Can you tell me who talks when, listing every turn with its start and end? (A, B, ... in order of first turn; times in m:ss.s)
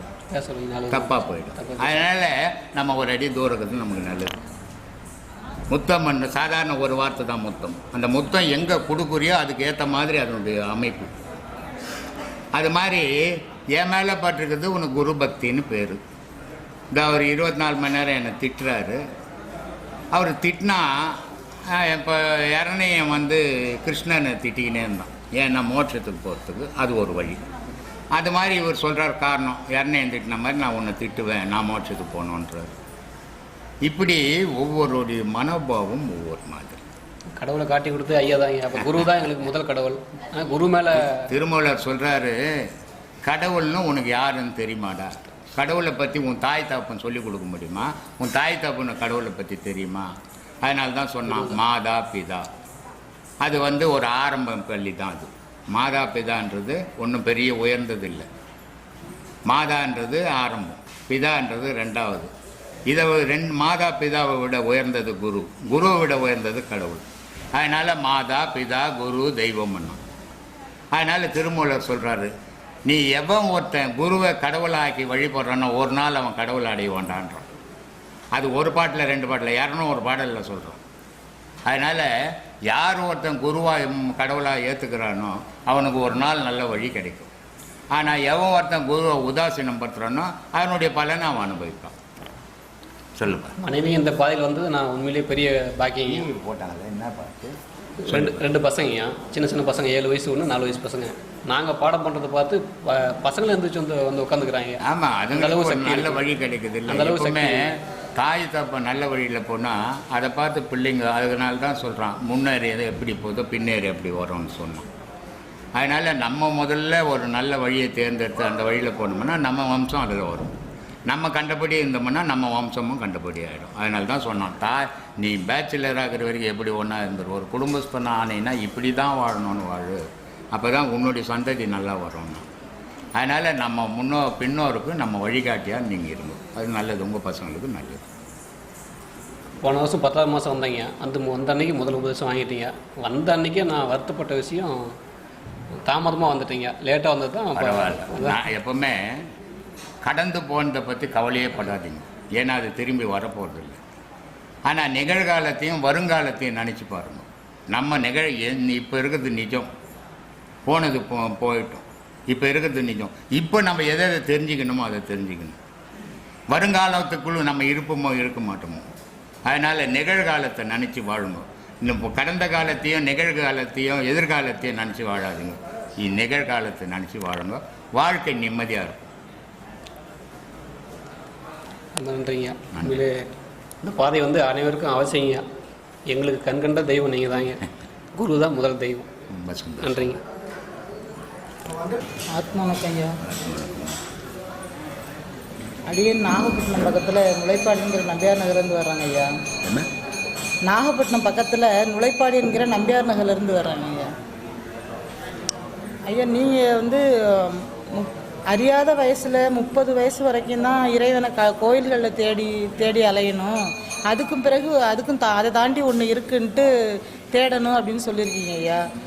0:00.3-0:02.0 A
0:00.9-0:04.4 B
0:05.7-0:11.1 B
0:12.5-0:16.0 B
0:16.9-0:19.0 B
0:20.1-0:27.4 B
0:28.1-0:32.7 B
0:33.8-0:36.8 B
0:37.4-0:41.3 A
0:41.0-0:42.6 B
0:43.2-0:52.5 B
0:53.4-0:58.3 B
0:59.5-1:02.3 B
1:02.9-1:10.0 B
1:10.9-1:12.3 B
1:12.8-1:17.5 B
1:18.3-1:20.8 B
1:21.7-1:27.3 B
1:27.9-1:31.9 B
1:33.2-1:33.6 B
1:33.6-1:36.2 A
1:36.1-1:38.4 B
1:38.0-1:44.8 A
1:44.8-1:54.8 B
1:45.3-1:46.2 A
1:46.9-1:47.7 A
1:55.8-2:00.5 B
2:01.1-2:10.0 B
2:10.5-2:12.4 B
2:13.2-2:18.0 B
2:19.6-2:24.9 A
2:25.8-2:28.4 A
2:27.6-2:29.3 B
2:30.0-2:33.8 B
2:34.6-2:39.7 B
2:40.6-2:45.6 B
2:46.5-2:48.8 B
2:49.4-2:59.1 B
3:02.0-3:03.3 A
3:02.7-3:03.0 B
3:03.8-3:05.4 A
3:06.1-3:07.6 A
3:08.2-3:09.1 A
3:09.3-3:10.1 B
3:09.8-3:10.2 A
3:12.3-3:13.2 C
3:13.2-3:14.0 B
3:15.9-3:19.3 C
3:20.6-3:24.1 C
3:26.1-3:36.7 C
3:37.3-3:38.8 C